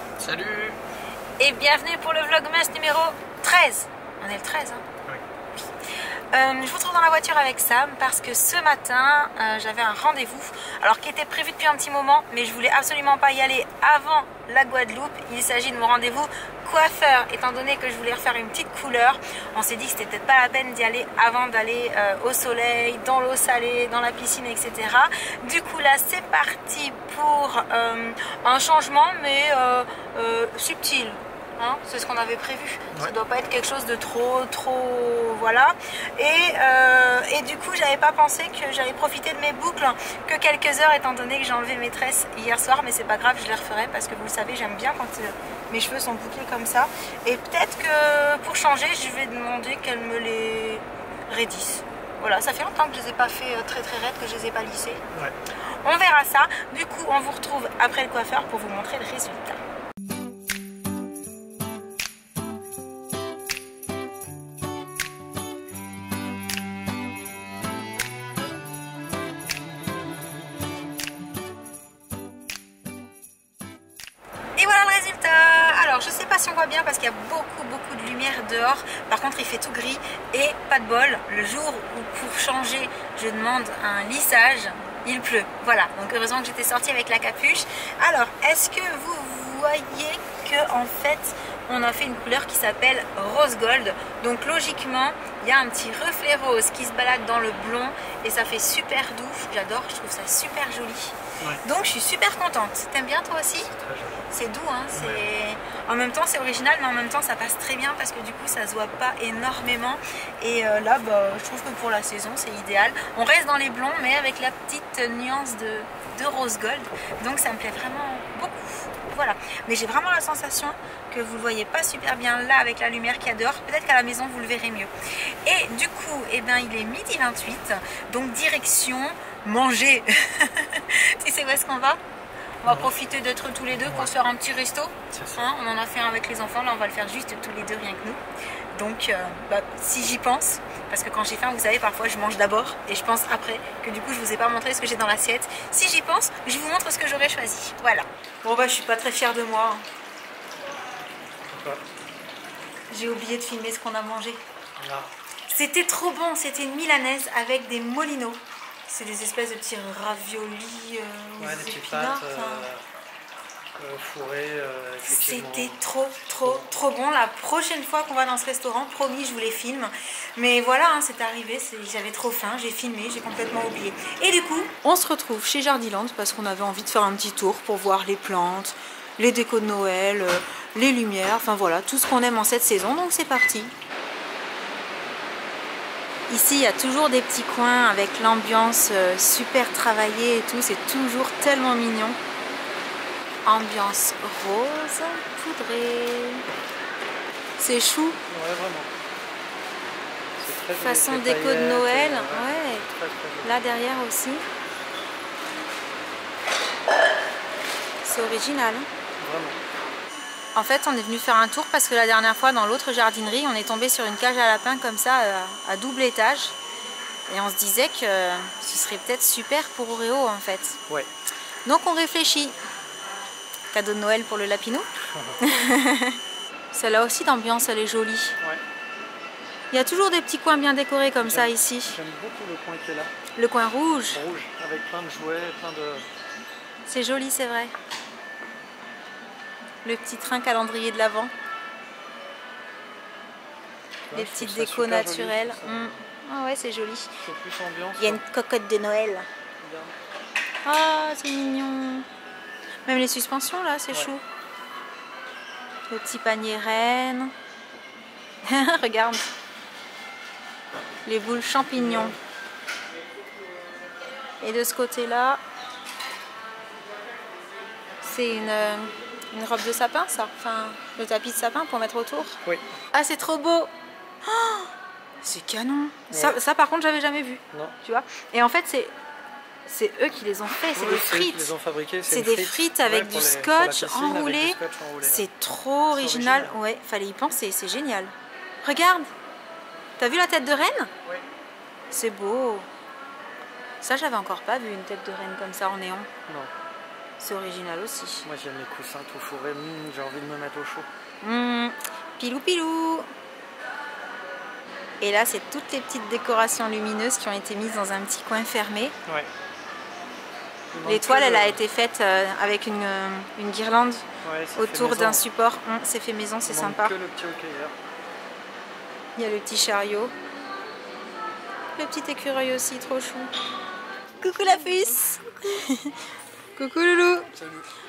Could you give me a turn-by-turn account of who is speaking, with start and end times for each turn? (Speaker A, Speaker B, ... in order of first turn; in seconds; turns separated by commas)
Speaker A: 0.2-0.8, Speaker B: 1.4-4.8, Speaker B: 6.3-55.0, Speaker B: 55.6-59.6, Speaker B: 74.6-103.7, Speaker A: 103.7-104.3, Speaker B: 104.3-124.9, Speaker A: 104.9-105.3, Speaker B: 125.4-132.0, Speaker B: 132.6-138.2, Speaker A: 132.7-132.9, Speaker A: 133.8-134.1, Speaker A: 135.1-135.5, Speaker B: 138.7-149.8, Speaker A: 151.5-151.8, Speaker B: 152.9-154.4, Speaker A: 154.8-155.1, Speaker B: 155.5-162.7, Speaker A: 161.4-162.8, Speaker A: 163.8-165.8, Speaker B: 165.0-183.7, Speaker B: 186.3-192.2, Speaker B: 193.4-196.4, Speaker B: 197.6-198.2, Speaker A: 198.3-198.9, Speaker A: 200.4-203.6, Speaker B: 200.8-202.9, Speaker B: 203.4-204.4, Speaker B: 208.0-208.9, Speaker A: 209.2-209.6, Speaker B: 210.5-216.5, Speaker B: 217.3-220.8, Speaker B: 221.6-222.5, Speaker B: 223.7-224.9, Speaker B: 225.4-226.2, Speaker B: 226.7-228.3, Speaker B: 229.7-231.9, Speaker A: 231.2-233.1, Speaker B: 233.3-234.2, Speaker A: 234.1-236.0, Speaker B: 236.8-237.7, Speaker B: 239.8-241.3, Speaker A: 244.1-246.0, Speaker B: 244.1-247.1, Speaker A: 247.2-248.2, Speaker B: 248.0-249.2, Speaker A: 249.6-249.9, Speaker B: 250.6-252.1, Speaker B: 252.8-254.2, Speaker B: 255.9-257.3, Speaker B: 258.4-259.3, Speaker B: 261.1-262.1, Speaker A: 261.7-262.1, Speaker B: 264.4-265.4, Speaker B: 268.0-272.4, Speaker B: 272.9-273.7, Speaker B: 274.2-274.7, Speaker B: 275.2-278.9, Speaker A: 276.1-276.4, Speaker B: 279.6-281.5, Speaker A: 280.7-285.3, Speaker B: 282.1-289.1, Speaker A: 285.9-286.5, Speaker B: 290.0-290.9, Speaker B: 291.9-292.7, Speaker B: 293.8-296.1, Speaker B: 297.2-298.2, Speaker A: 298.2-300.9, Speaker B: 301.2-303.1, Speaker B: 305.0-308.9, Speaker A: 310.7-311.6, Speaker B: 310.8-316.9, Speaker A: 314.2-315.2, Speaker A: 316.4-317.7, Speaker B: 319.1-320.1, Speaker B: 321.8-323.3, Speaker B: 324.2-325.9, Speaker B: 326.6-327.3